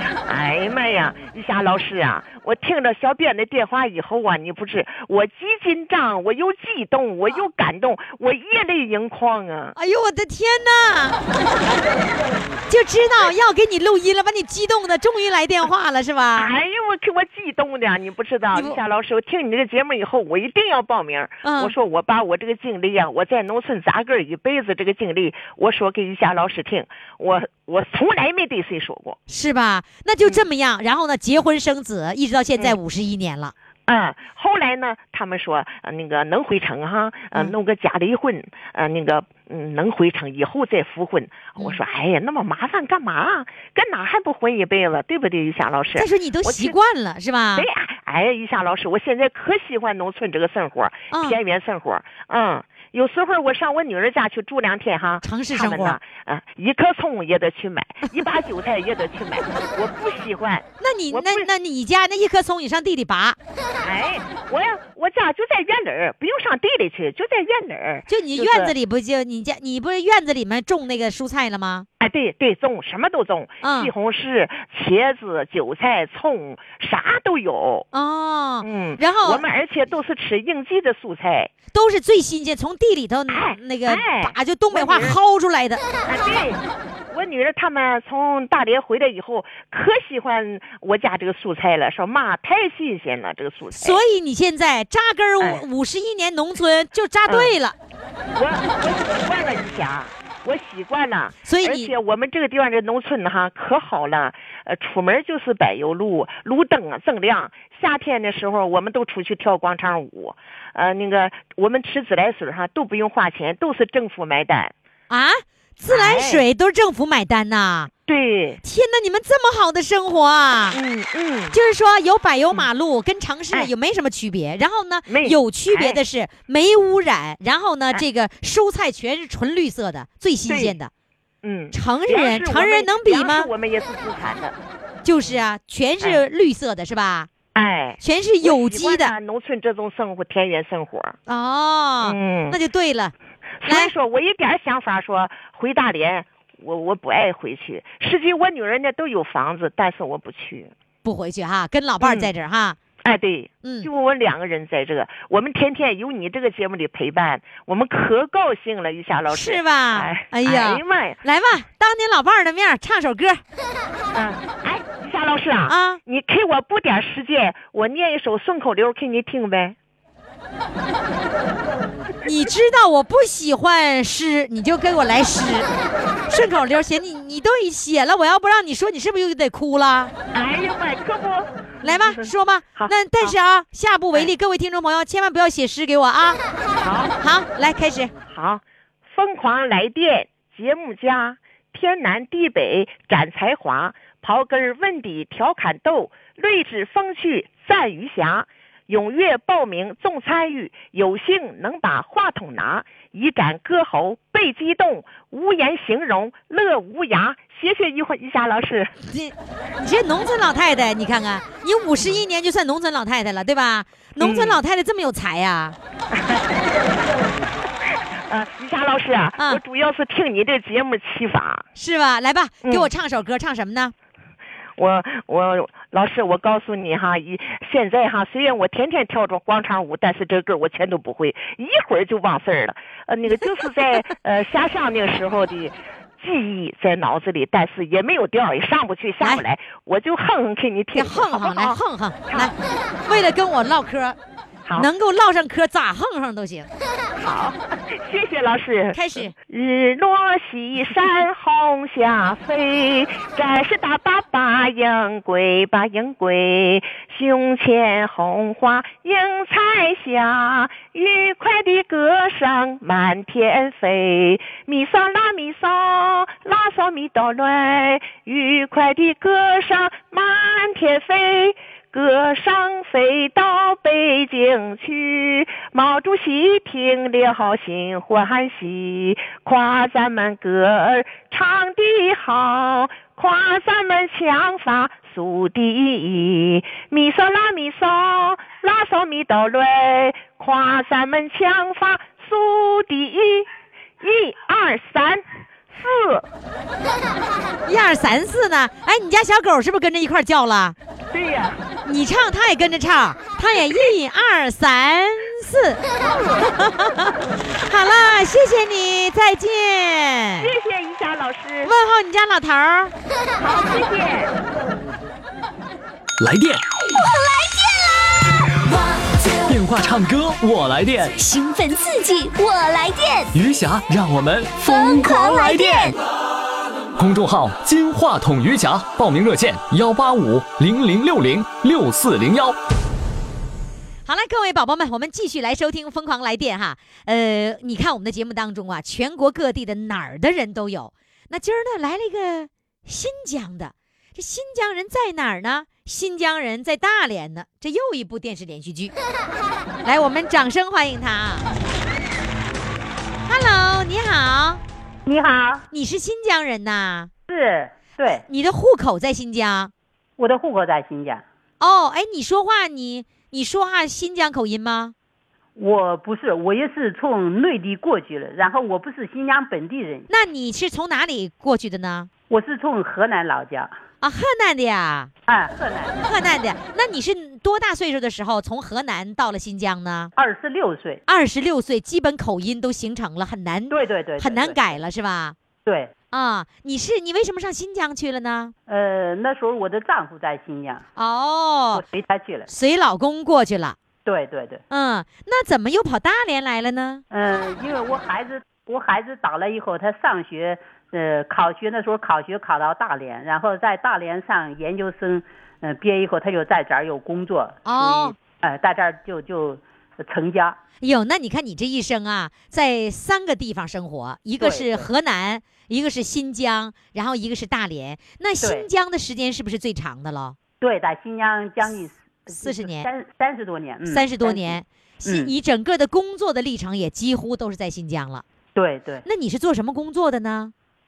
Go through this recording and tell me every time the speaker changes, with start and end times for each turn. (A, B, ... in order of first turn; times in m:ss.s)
0:00.2-0:09.7 A
0:09.7-0:11.2 B
0:12.7-0:16.5 B
0:16.4-0:29.2 A
0:18.5-0:18.8 B
0:21.4-0:21.7 B
0:29.3-0:33.5 B
0:33.9-0:46.7 A
0:46.0-0:47.7 B
0:47.5-1:01.5 A
0:51.1-0:51.4 B
0:55.2-0:56.0 B
1:00.8-1:03.4 B
1:03.7-1:08.7 A
1:08.1-1:11.9 B
1:12.0-1:17.9 A
1:13.6-1:13.9 B
1:17.9-1:19.4 B
1:18.6-1:21.5 A
1:21.7-1:25.8 B
1:23.3-1:25.2 A
1:26.0-1:34.0 A
1:33.7-1:37.8 B
1:37.3-1:37.5 A
1:38.3-1:54.7 A
1:41.4-1:41.9 B
1:55.1-1:57.9 B
1:55.9-1:56.4 A
1:58.1-1:58.6 A
1:58.6-2:00.8 B
2:00.7-2:01.6 A
2:01.5-2:10.9 B
2:05.1-2:06.0 A
2:10.5-2:10.8 A
2:11.4-2:14.5 A
2:11.7-2:13.5 B
2:15.0-2:17.3 B
2:17.5-2:21.2 A
2:18.0-2:19.1 B
2:21.3-2:23.1 B
2:22.0-2:22.6 A
2:23.6-2:30.7 A
2:23.6-2:23.9 B
2:31.0-2:32.8 B
2:32.0-2:32.3 A
2:33.0-2:41.2 A
2:33.6-2:33.9 B
2:39.3-2:43.4 B
2:44.1-2:49.8 A
2:45.7-2:46.0 B
2:52.2-2:55.7 B
2:56.3-3:00.1 B
3:00.3-3:03.4 A
3:01.8-3:06.4 B
3:06.8-3:07.2 A
3:07.2-3:08.1 B
3:08.3-3:28.9 A
3:29.0-3:35.8 B
3:34.2-3:34.6 A
3:36.1-3:36.5 A
3:38.3-3:41.6 A
3:41.7-3:43.9 B
3:42.6-3:42.9 A
3:44.8-4:02.5 A
4:00.9-4:02.5 B
4:03.0-4:04.2 B
4:04.6-4:04.9 A
4:04.7-4:06.7 B
4:07.2-4:53.5 A
4:08.9-4:09.3 B
4:54.0-4:56.2 A
4:57.6-5:00.8 B
5:01.1-5:01.6 A
5:01.8-5:05.8 B
5:06.0-5:06.5 A
5:06.4-5:10.5 B
5:10.4-5:11.7 A
5:11.6-5:12.9 B
5:13.4-5:14.3 A
5:16.2-5:16.6 C
5:16.9-5:18.4 D
5:19.4-5:21.2 C
5:21.2-5:23.3 D
5:23.3-5:25.9 C
5:24.6-5:26.0 D
5:27.0-5:32.6 C
5:34.0-5:48.9 B
5:49.8-5:51.5 B
5:53.2-5:54.6 B
5:55.0-5:55.7 E
5:55.7-5:57.1 B
5:57.3-5:58.2 E
5:58.3-5:59.7 B
6:00.2-6:01.2 E
6:01.6-6:04.9 B
6:05.6-6:10.1 E
6:10.1-6:12.1 B
6:12.3-6:13.7 E
6:14.0-6:15.1 B
6:15.3-6:16.0 E
6:16.0-6:20.1 B
6:20.2-6:21.0 E
6:21.1-6:25.4 B
6:23.7-6:24.7 E
6:25.6-6:25.9 E
6:26.1-6:28.5 B
6:28.7-6:30.8 E
6:31.0-6:31.8 B
6:31.7-6:32.5 E
6:32.5-6:33.8 B
6:34.0-6:34.6 E
6:34.7-6:37.0 B
6:37.1-6:50.6 E
6:47.6-6:48.2 B
6:50.8-7:00.4 B
6:54.4-6:54.9 E
6:58.4-6:58.7 E
7:00.6-7:05.3 E
7:02.3-7:02.9 B
7:03.9-7:08.2 B
7:08.5-7:09.0 E
7:09.0-7:10.5 B